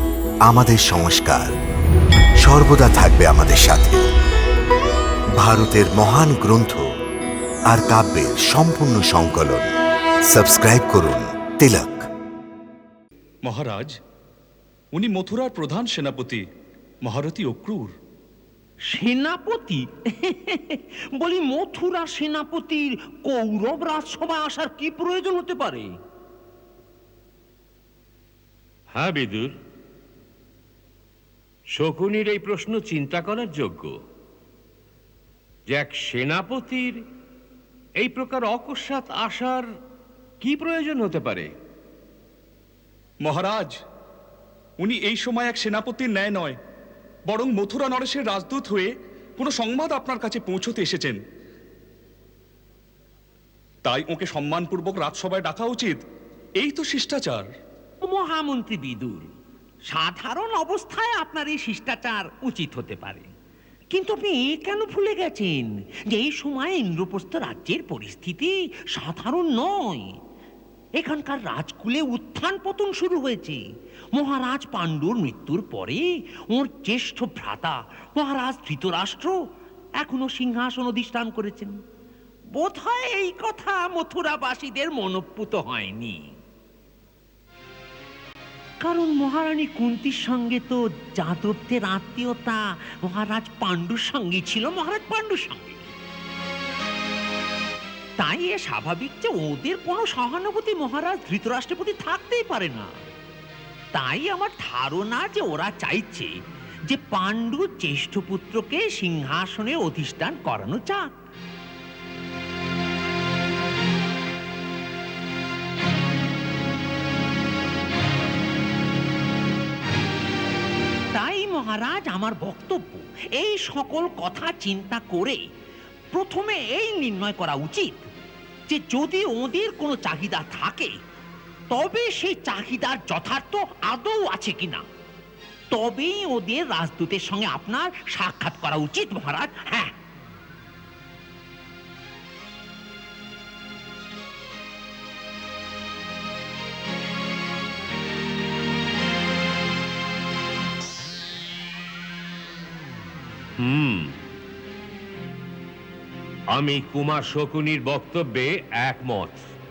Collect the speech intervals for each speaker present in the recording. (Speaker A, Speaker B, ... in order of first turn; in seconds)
Speaker A: 0.5-1.5, 2.4-4.0, 5.4-6.8, 7.7-9.7, 10.3-12.1
Speaker B: 13.4-13.9, 14.9-16.4, 17.0-17.9, 43.2-43.7, 44.8-46.6, 47.3-51.2, 53.8-56.0, 56.6-57.5
Speaker C: 18.9-25.9, 58.0-59.3, 59.9-63.3, 63.9-70.1, 71.0-73.6, 74.1-79.3, 80.0-81.7, 82.5-86.3, 88.8-95.8, 98.2-102.9, 103.9-106.3, 106.9-111.1, 121.1-125.4, 126.1-128.0, 128.7-130.9, 131.7-134.8, 135.7-139.9
Speaker D: 28.9-29.6, 31.7-34.0, 35.7-37.0, 38.0-39.6, 40.4-41.5, 153.6-154.1, 156.5-159.4